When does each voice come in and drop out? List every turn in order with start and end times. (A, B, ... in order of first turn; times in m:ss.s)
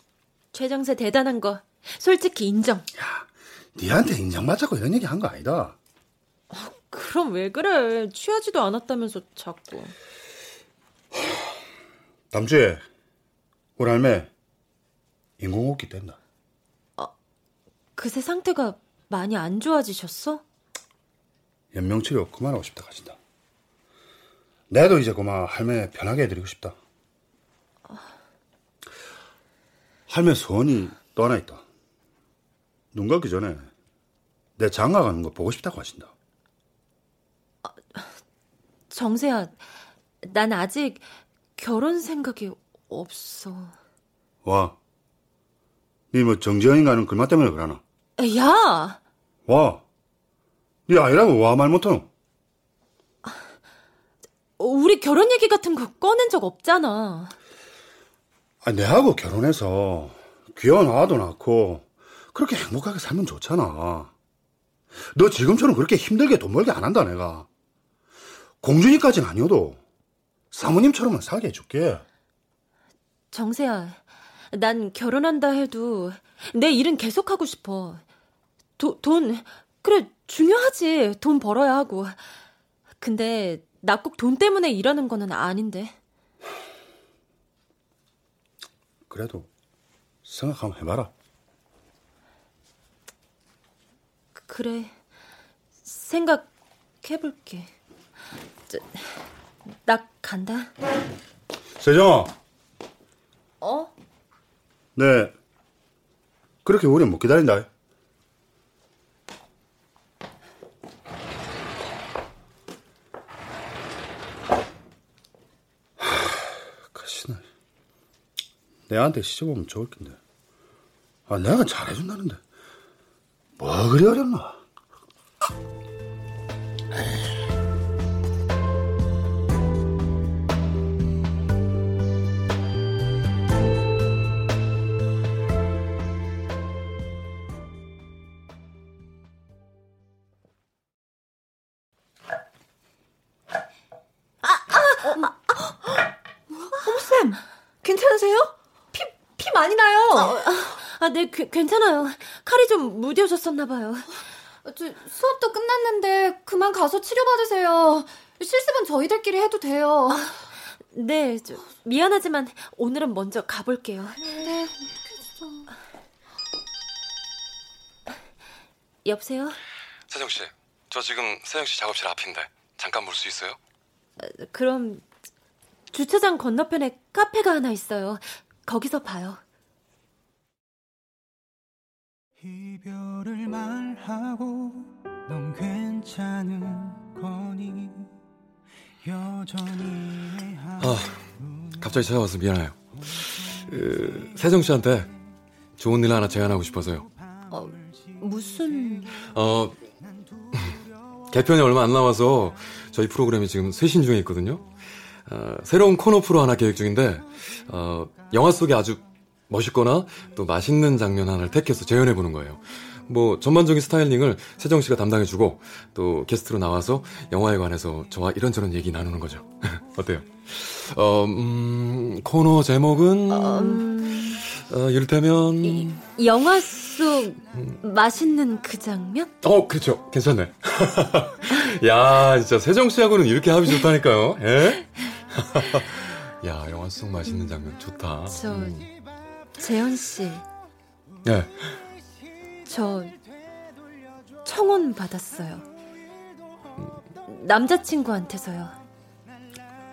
0:00.5-0:02.9 A
0:03.0-0:05.8 B
0:06.5-0:09.9 A
0:11.1-0:11.6 B
0:12.3-0:12.8 B
0:13.8-0:14.3 B
0:15.4-0:16.2 B
0:18.0-0:20.4 A
0:21.7-0:23.2 B
0:24.7-0:26.8 B
0:30.1-0:31.6 B
0:32.9-0:33.7 B
0:34.6-0:36.1 B
0:37.6-0:38.2 A
0:38.9-0:39.6 A
0:40.2-0:41.0 A
0:41.6-0:43.7 A
0:44.4-0:44.8 B
0:46.1-0:47.8 B
0:48.2-0:49.0 A
0:49.4-0:49.8 B
0:50.9-0:52.1 B
0:54.6-0:57.3 A
0:58.6-1:04.1 B
1:05.0-1:07.5 B
1:08.6-1:09.8 B
1:10.5-1:12.0 B
1:13.3-1:14.0 A
1:14.5-1:18.0 A
1:18.8-1:22.2 A
1:23.0-1:26.0 A
1:29.1-1:29.5 B
1:30.2-1:31.1 B
1:34.4-1:34.9 A
1:35.8-1:36.5 A
1:37.0-1:37.7 A
1:38.7-1:40.7 A
1:41.8-1:42.3 B
1:43.6-1:43.9 A
1:45.0-1:45.3 B
1:46.6-1:47.7 B
1:56.0-1:57.4 B
1:58.9-2:00.2 B
2:01.3-2:02.4 B
2:03.6-2:04.6 B
2:24.4-2:25.8 A
2:26.8-2:30.3 C
2:30.1-2:34.2 A
2:34.6-2:40.2 D
2:40.1-2:44.3 A
2:49.0-2:49.6 A
2:50.1-2:53.6 E
2:54.2-2:55.0 A
2:55.9-2:59.4 A
3:02.4-3:08.1 F
3:09.0-3:10.9 F
3:10.8-3:11.2 E
3:11.8-3:15.1 E
3:15.8-3:17.1 E
3:17.5-3:19.2 A
3:19.3-3:19.8 E
3:21.3-3:45.9 E
3:43.3-3:44.4 A
3:45.6-3:49.3 A
3:47.5-3:47.8 E
3:49.4-3:58.9 E
3:58.3-3:58.8 A
3:59.6-4:00.4 A
4:01.2-4:01.8 E
4:02.6-4:03.2 A
4:04.4-4:05.6 A
4:07.3-4:08.8 A